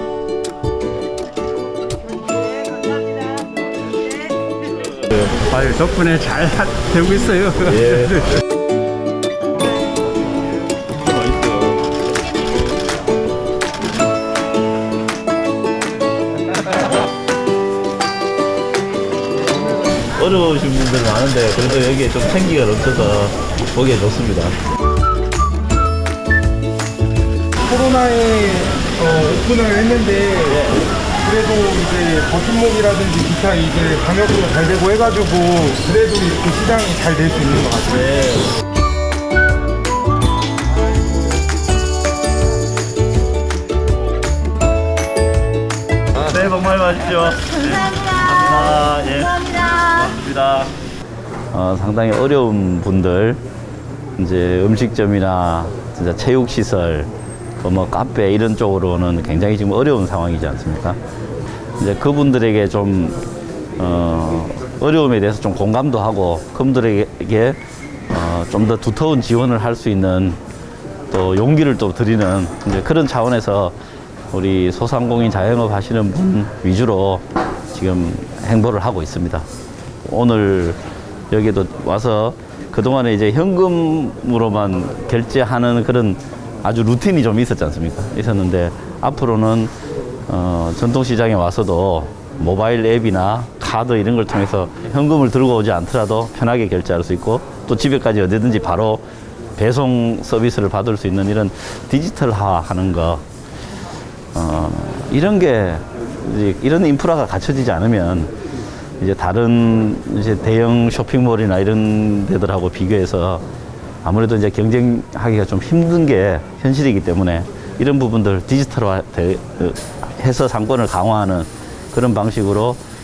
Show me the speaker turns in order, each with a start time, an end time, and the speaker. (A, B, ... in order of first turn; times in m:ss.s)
0:05.1-0:08.2 A
0:07.6-0:08.3 B
0:11.3-0:11.7 B
0:20.0-0:24.6 B
0:27.7-0:30.6 C
0:30.5-0:30.8 B
0:31.2-0:38.0 C
0:37.9-0:38.6 B
0:46.2-0:50.7 B
0:51.5-0:53.4 B
0:54.2-0:57.1 B
0:57.6-1:01.0 B
1:01.8-1:03.2 B
1:03.8-1:07.6 B
1:08.1-1:10.4 B
1:11.1-1:13.8 B
1:14.3-1:19.5 B
1:20.1-1:20.8 B
1:21.3-1:29.7 B
1:30.3-1:39.0 B
1:39.6-1:43.2 B
1:44.3-1:48.3 B
1:49.0-1:53.4 B
1:54.0-2:02.8 B